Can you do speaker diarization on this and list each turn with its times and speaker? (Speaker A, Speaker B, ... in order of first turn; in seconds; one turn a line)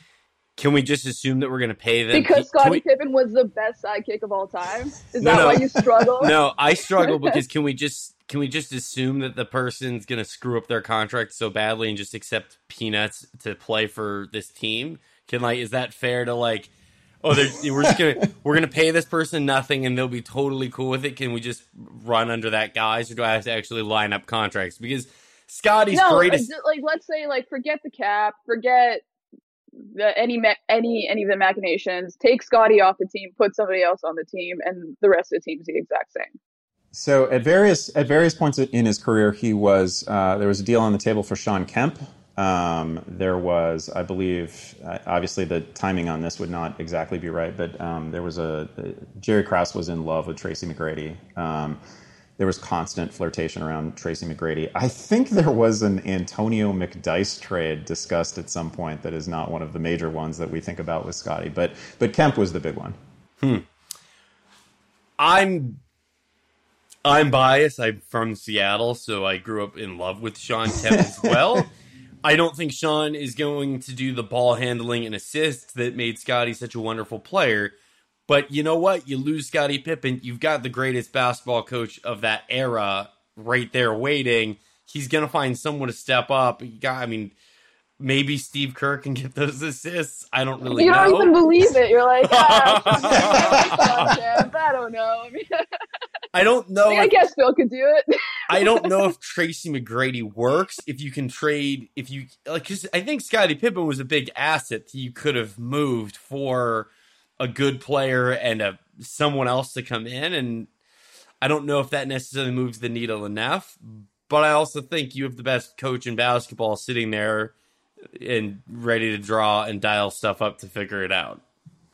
Speaker A: 0.6-2.8
Speaker B: 2.1-6.3
Speaker A: 5.2-26.5
Speaker B: 7.0-7.4
Speaker C: 17.4-18.0
Speaker B: 25.9-29.0
Speaker B: 29.9-36.4
Speaker C: 36.9-51.8
Speaker C: 52.4-63.0
Speaker A: 63.4-63.6
Speaker A: 65.2-65.8
Speaker A: 67.0-71.7
Speaker C: 70.9-71.4
Speaker A: 72.2-77.7
Speaker A: 78.3-87.3
Speaker A: 88.0-91.7
Speaker B: 90.7-95.6
Speaker A: 92.2-94.1
Speaker C: 93.2-93.8
Speaker A: 96.3-97.2
Speaker B: 96.9-99.0
Speaker A: 98.5-110.7
Speaker A: 111.4-117.5
Speaker A: 118.1-121.4